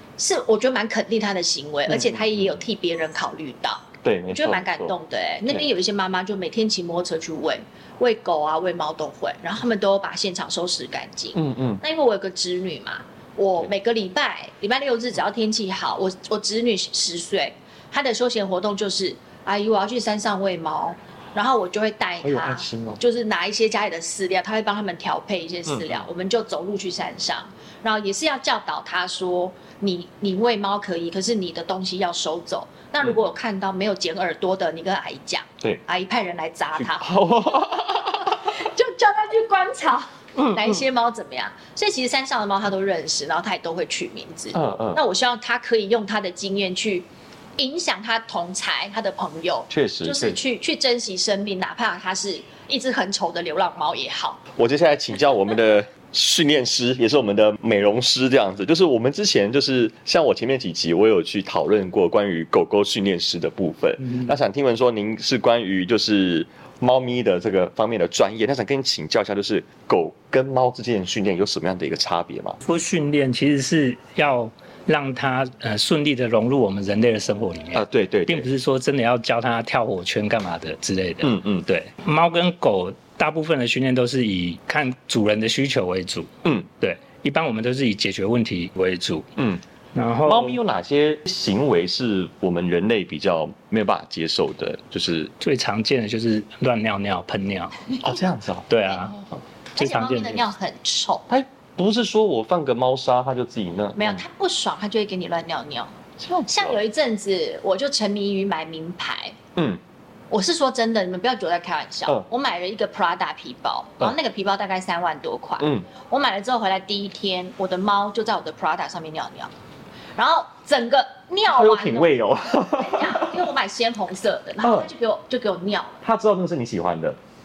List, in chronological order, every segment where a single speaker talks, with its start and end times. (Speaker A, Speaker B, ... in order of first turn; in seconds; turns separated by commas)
Speaker A: 0.2-37.2, Speaker B: 1.9-2.5, Speaker B: 4.0-4.9, Speaker B: 11.3-11.8, Speaker B: 22.2-23.0, Speaker B: 25.7-26.0, Speaker B: 36.8-38.5, Speaker A: 38.1-54.4, Speaker B: 40.4-40.8, Speaker B: 44.5-45.0, Speaker B: 49.7-50.4, Speaker B: 54.6-72.6, Speaker C: 72.6-89.3, Speaker B: 77.7-78.5, Speaker B: 81.2-81.7, Speaker B: 89.4-89.6, Speaker C: 90.0-90.6, Speaker B: 90.2-95.3, Speaker C: 95.4-98.0, Speaker B: 98.0-99.2, Speaker C: 98.7-99.2, Speaker A: 99.8-101.3, Speaker C: 99.8-100.4, Speaker B: 101.3-104.2, Speaker A: 104.0-106.0, Speaker B: 106.2-106.8, Speaker A: 106.5-109.4, Speaker B: 109.6-109.8, Speaker A: 110.3-119.5, Speaker B: 115.6-115.9, Speaker A: 120.2-126.0, Speaker B: 121.5-123.5, Speaker B: 124.6-124.9, Speaker B: 126.0-127.2